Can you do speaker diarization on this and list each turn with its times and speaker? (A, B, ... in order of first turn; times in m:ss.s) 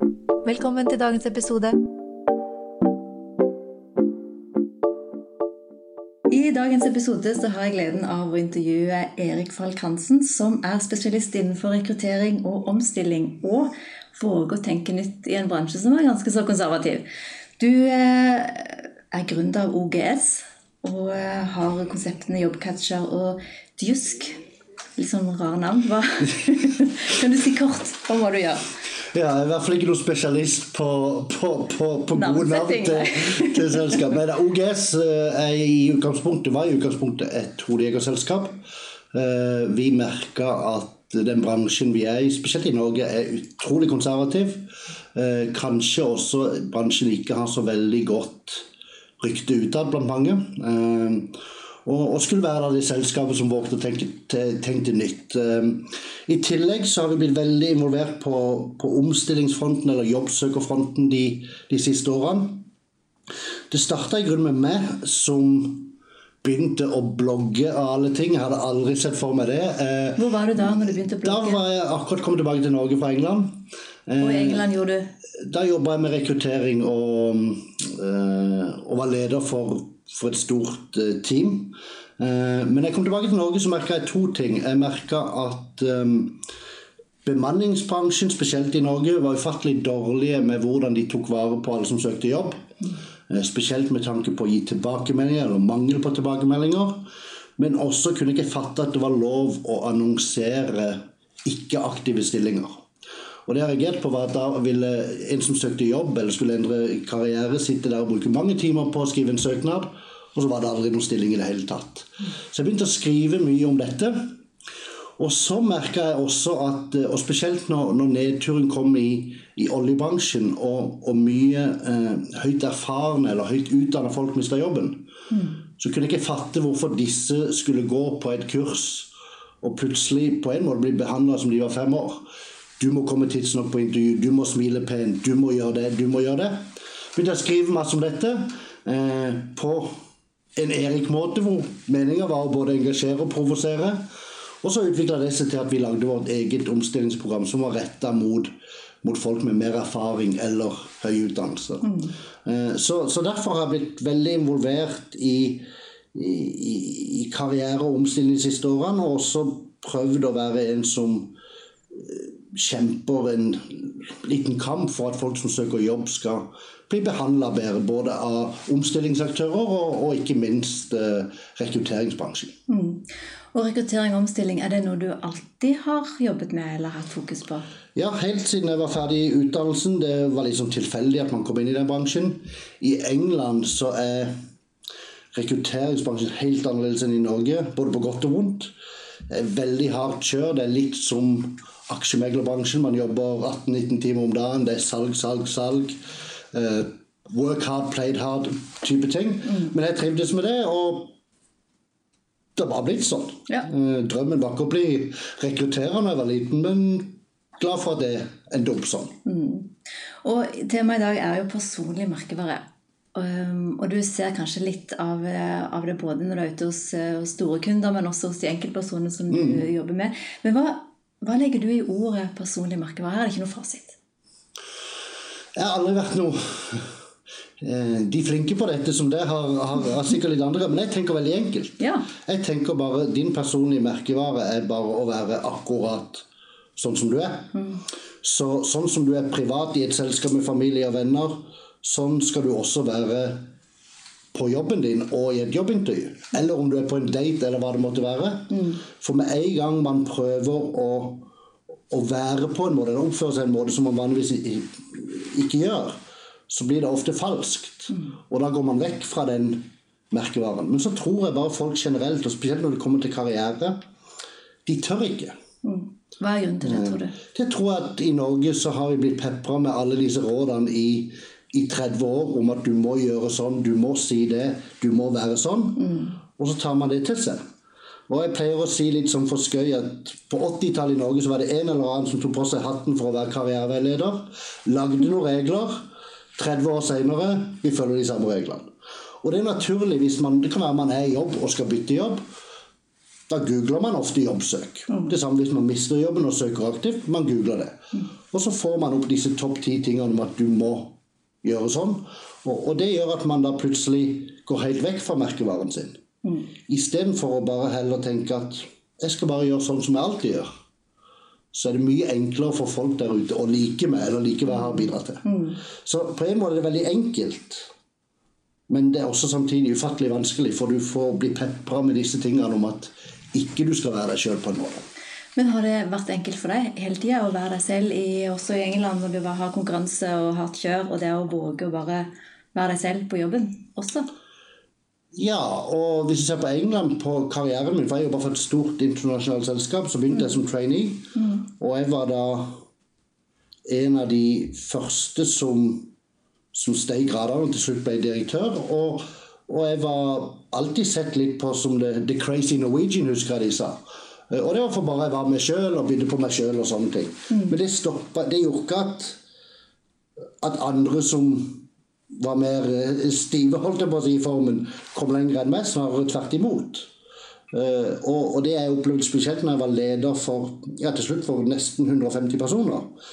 0:00.4-0:01.8 A
0:06.3-0:17.0 A
0:17.6-0:24.4 A
0:25.0-0:28.7 A
0:29.1-0:38.6 B
0:32.1-0:34.0 A
0:39.1-0:48.6 B
0:49.2-1:02.7 B
1:03.7-1:10.2 B
1:10.2-1:11.6 A
1:11.2-1:14.6 B
1:14.2-1:15.1 A
1:15.4-1:26.4 B
1:27.2-1:32.6 B
1:33.3-1:42.8 B
1:43.4-1:54.3 B
1:55.2-2:05.1 B
2:05.3-2:05.6 A
2:05.8-2:09.1 B
2:09.6-2:12.2 B
2:12.8-2:19.9 B
2:20.6-2:24.0 B
2:24.6-2:28.5 B
2:29.0-2:41.3 B
2:31.8-2:32.1 A
2:41.9-2:52.5 B
2:52.7-2:57.6 A
2:57.9-3:04.3 B
3:05.3-3:08.7 B
3:09.3-3:16.0 B
3:16.5-3:21.1 B
3:22.6-3:29.1 B
3:29.2-3:29.7 A
3:30.2-3:44.0 A
3:39.3-3:39.6 B
3:45.5-3:46.9 B
3:47.6-3:57.5 B
3:51.8-3:52.1 A
3:57.5-3:57.8 A
3:58.2-4:03.4 B
4:04.3-4:11.3 B
4:08.5-4:08.8 A
4:11.9-4:16.0 B
4:16.5-4:23.8 B
4:24.6-4:25.3 B
4:25.6-4:27.1 A
4:26.6-4:37.4 B
4:35.8-4:36.1 A
4:38.1-4:45.8 B
4:46.4-4:48.7 B
4:49.2-4:52.2 B
4:53.3-5:06.0 B
5:06.7-5:10.5 B
5:11.5-5:17.7 B
5:15.2-5:15.6 A
5:18.7-5:24.8 B
5:25.4-5:34.1 A
5:35.1-5:42.6 B
5:43.7-5:45.9 B
5:46.5-5:59.2 B
6:00.4-6:01.6 B
6:02.2-6:06.9 B
6:07.5-6:12.9 B